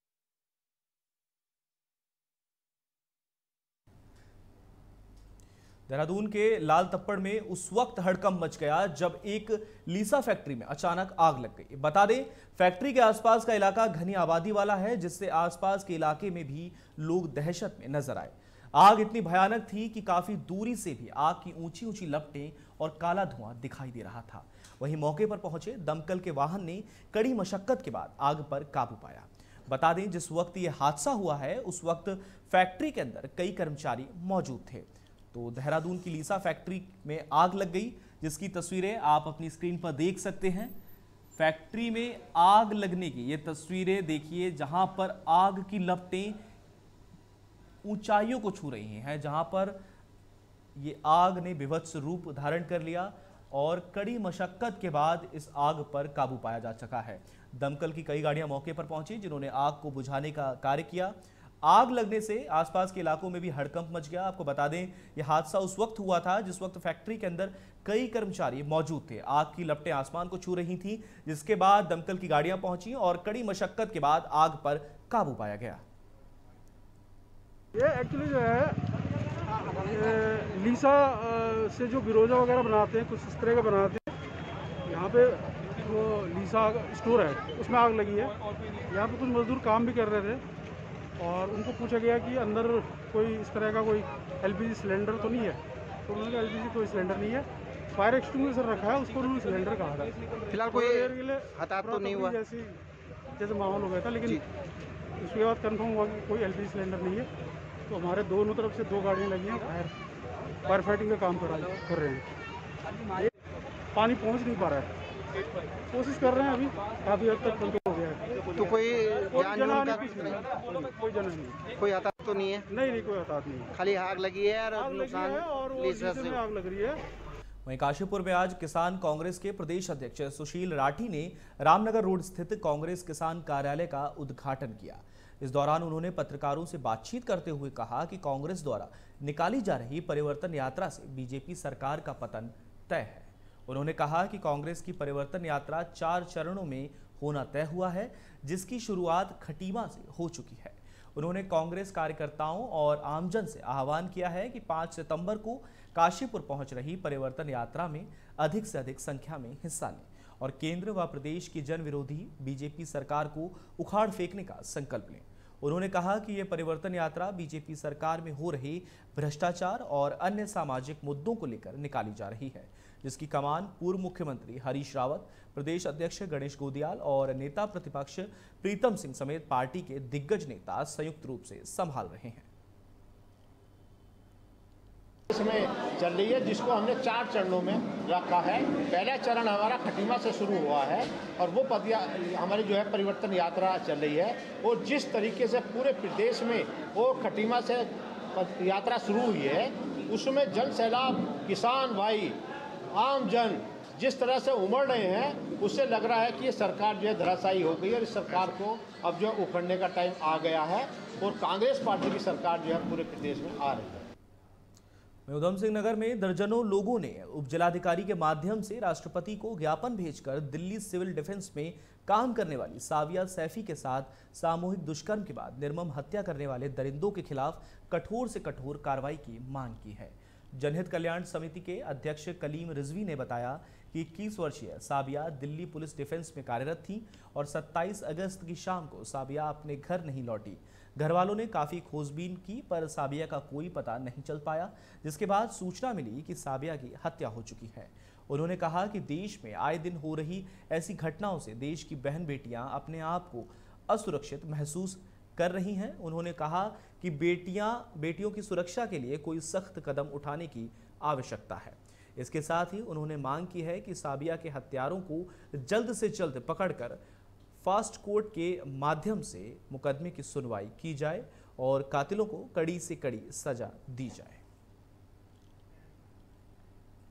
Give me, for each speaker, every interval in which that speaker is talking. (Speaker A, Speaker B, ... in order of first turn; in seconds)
Speaker A: 5.9-40.8, 41.4-46.4, 47.8-49.8, 50.8-75.8, 127.7-182.5, 215.3-267.0, 267.6-274.4
Speaker B: 77.7-78.8, 79.6-84.1, 84.9-88.3, 88.9-90.4, 91.2-102.8, 103.4-104.4, 105.2-107.3, 107.9-109.9, 110.7-112.3, 113.9-114.9, 115.9-118.7, 119.2-121.6, 122.7-123.7, 124.7-127.0
Speaker C: 118.6-120.0, 121.8-122.6, 123.8-126.0
Speaker D: 185.3-202.4, 202.9-214.1